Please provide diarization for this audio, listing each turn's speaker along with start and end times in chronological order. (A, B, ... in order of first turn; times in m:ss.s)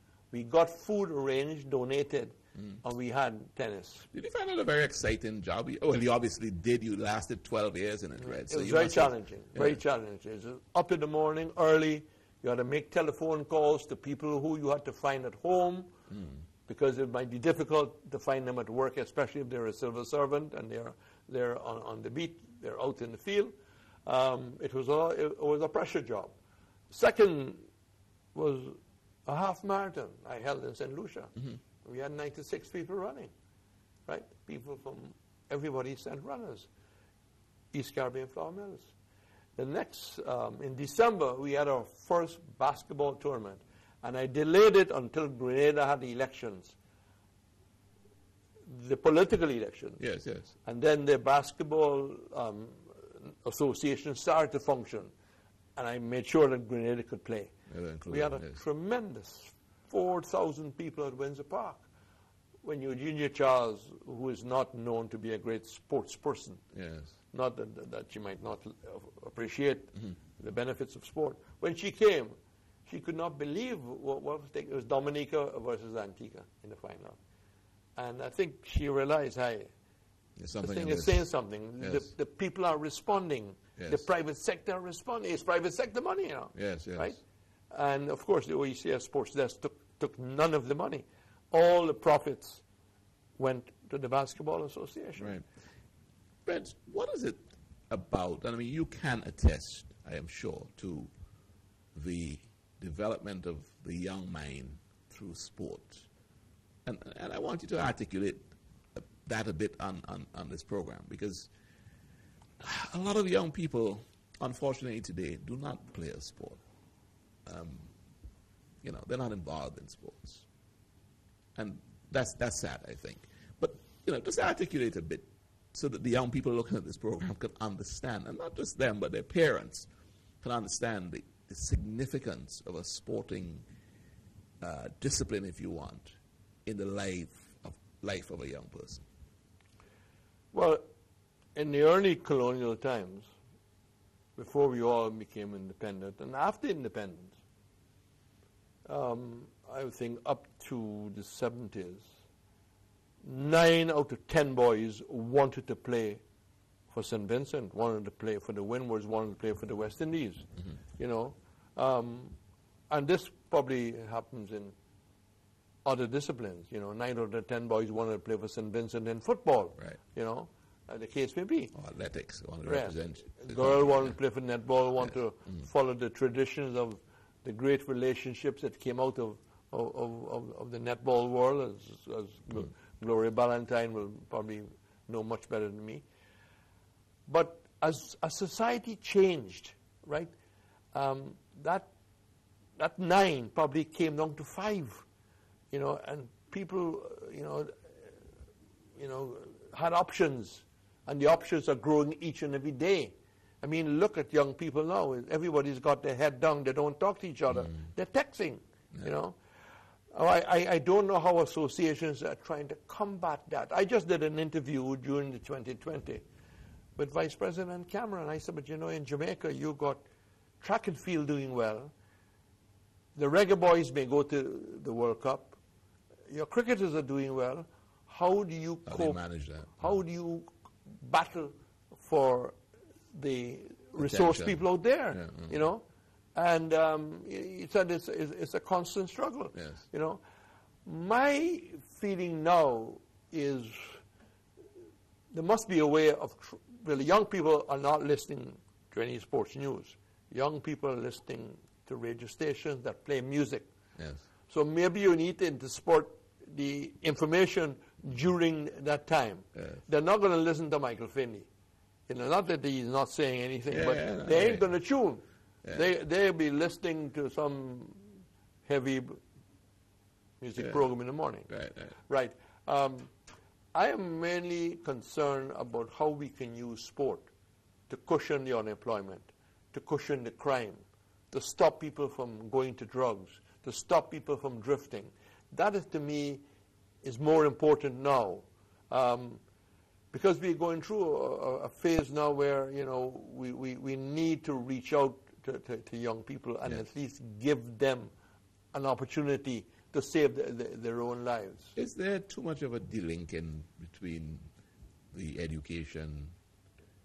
0:00.3-0:04.1 A
0:04.1-0:09.8 B
0:08.2-0:15.9 A
0:16.7-0:23.5 A
0:24.0-0:26.4 A
0:26.9-0:27.7 A
0:28.3-0:33.3 A
0:34.1-0:36.7 A
0:37.7-0:38.9 A
0:39.6-0:46.7 A
0:48.6-0:50.0 A
0:50.0-0:50.5 B
0:50.6-0:55.1 A
0:55.8-0:57.5 A
0:57.7-0:58.6 B
0:58.0-1:01.9 A
1:02.6-1:06.6 A
1:06.7-1:07.1 B
1:07.3-1:12.3 A
1:12.8-1:17.2 A
1:18.0-1:19.7 A
1:20.4-1:22.1 B
1:20.6-1:27.2 A
1:23.8-1:24.0 B
1:26.5-1:27.2 B
1:27.7-1:32.6 A
1:33.4-1:35.4 A
1:35.2-1:35.4 B
1:36.4-1:41.1 B
1:41.9-1:46.1 B
1:46.8-1:51.5 B
1:52.6-1:56.6 B
1:57.4-1:57.9 B
1:58.8-2:00.4 B
2:01.6-2:09.9 B
2:10.4-2:13.6 B
2:14.6-2:19.0 B
2:20.5-2:20.8 A
2:21.5-2:23.3 A
2:24.4-2:27.4 A
2:28.8-2:32.1 A
2:33.2-2:36.2 A
2:36.9-2:42.4 A
2:42.9-2:44.7 A
2:45.8-2:51.7 A
2:51.7-2:54.2 B
2:52.6-3:06.0 A
3:07.3-3:10.3 A
3:10.9-3:11.9 A
3:12.8-3:15.0 A
3:15.7-3:18.1 A
3:19.0-3:29.4 A
3:30.1-3:36.2 A
3:37.0-3:40.0 A
3:40.6-3:41.9 A
3:43.1-3:45.6 A
3:46.3-3:49.2 A
3:48.8-3:49.9 B
3:49.7-3:52.6 A
3:53.1-4:00.2 A
3:54.0-3:55.6 B
3:59.5-3:59.8 B
4:00.8-4:04.0 A
4:05.3-4:13.7 A
4:14.0-4:14.2 B
4:14.5-4:21.5 A
4:22.1-4:28.1 A
4:23.7-4:24.7 B
4:28.6-4:29.2 A
4:30.4-4:31.5 A
4:30.6-4:30.8 B
4:31.5-4:32.0 B
4:32.0-4:33.1 A
4:33.7-4:37.3 A
4:37.9-4:46.4 A
4:47.0-4:49.4 A
4:50.1-4:58.1 A
4:58.7-5:01.7 A
5:01.8-5:04.5 B
5:05.1-5:06.3 B